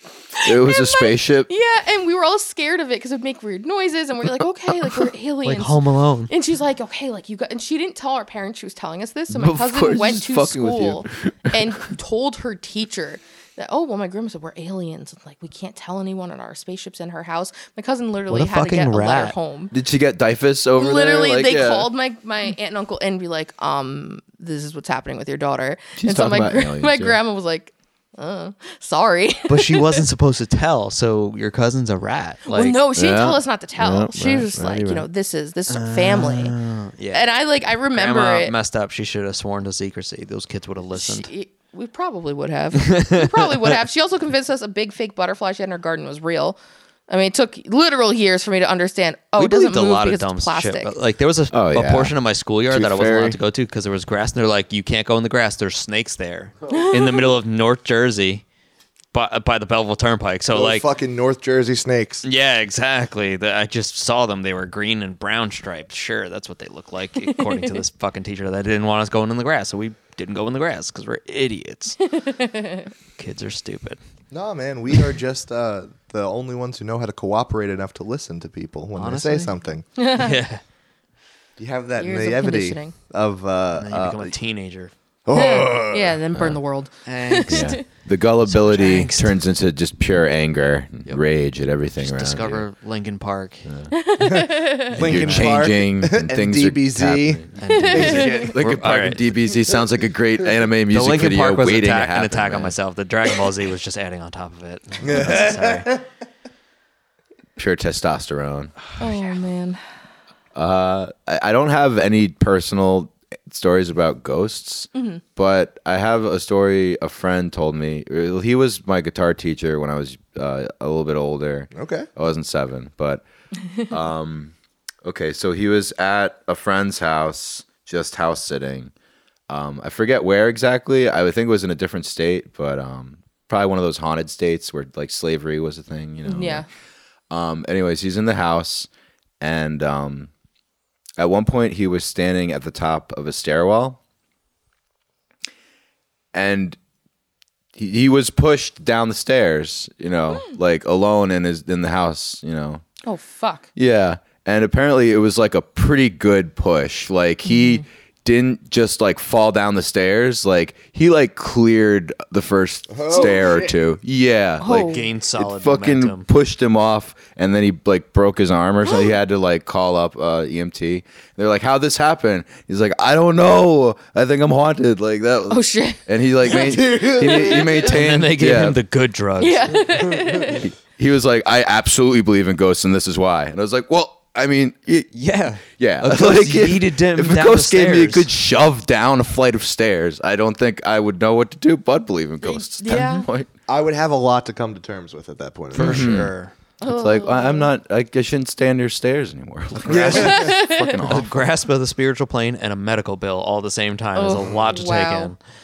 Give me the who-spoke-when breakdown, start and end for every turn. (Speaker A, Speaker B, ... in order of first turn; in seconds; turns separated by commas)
Speaker A: 0.3-5.8, Speaker B: 0.4-1.5, Speaker C: 5.4-6.3, Speaker A: 6.3-19.7, Speaker B: 9.3-11.6, Speaker C: 18.3-19.3, Speaker B: 19.7-21.9, Speaker A: 20.8-30.0, Speaker B: 26.0-27.2, Speaker C: 29.5-32.8, Speaker A: 32.5-36.6, Speaker B: 33.0-35.0, Speaker C: 35.7-37.3, Speaker A: 37.1-38.5, Speaker C: 37.9-41.3, Speaker A: 40.9-50.9, Speaker C: 42.8-43.7, Speaker C: 49.4-58.4, Speaker B: 51.5-52.1, Speaker B: 52.7-53.4, Speaker A: 56.7-57.2, Speaker C: 59.1-60.9, Speaker D: 60.5-62.2, Speaker C: 62.2-72.0, Speaker A: 67.2-67.8, Speaker A: 72.1-72.9, Speaker C: 73.2-74.0, Speaker D: 74.3-79.8, Speaker C: 78.9-79.5, Speaker A: 80.0-80.4, Speaker C: 80.1-80.6, Speaker D: 81.6-84.3, Speaker A: 82.0-82.9, Speaker C: 83.8-84.9, Speaker D: 85.2-86.2, Speaker A: 85.3-87.8, Speaker C: 87.0-87.8, Speaker B: 87.5-92.6, Speaker C: 88.4-89.4, Speaker C: 92.0-93.7, Speaker A: 93.9-95.0, Speaker D: 94.2-98.6, Speaker B: 94.9-102.7, Speaker C: 95.0-95.6, Speaker C: 97.6-99.3, Speaker A: 97.6-98.5, Speaker C: 100.9-105.9, Speaker D: 105.0-106.0, Speaker B: 107.6-108.7, Speaker A: 109.0-109.8, Speaker B: 110.5-123.2, Speaker A: 114.9-115.2, Speaker D: 121.7-122.1, Speaker B: 123.9-128.9, Speaker B: 129.5-136.7, Speaker A: 136.2-136.7, Speaker B: 137.3-138.9, Speaker B: 139.4-140.3, Speaker B: 141.2-144.0, Speaker B: 146.3-146.8, Speaker B: 147.7-152.8, Speaker A: 153.0-153.7, Speaker B: 153.8-178.8, Speaker A: 157.5-157.8, Speaker D: 162.9-163.7, Speaker A: 164.6-165.1, Speaker C: 164.8-166.3, Speaker A: 175.5-176.0, Speaker D: 176.5-177.7, Speaker C: 177.7-179.8, Speaker A: 179.4-180.7, Speaker D: 179.9-180.6, Speaker B: 180.6-185.1, Speaker C: 185.1-188.3, Speaker B: 185.8-193.5, Speaker A: 192.4-193.3, Speaker D: 193.7-196.1, Speaker C: 195.7-196.5, Speaker B: 195.7-196.3, Speaker A: 196.8-197.7, Speaker B: 196.8-201.4, Speaker C: 199.8-205.4, Speaker D: 199.9-200.4, Speaker A: 200.1-201.0, Speaker A: 204.1-205.3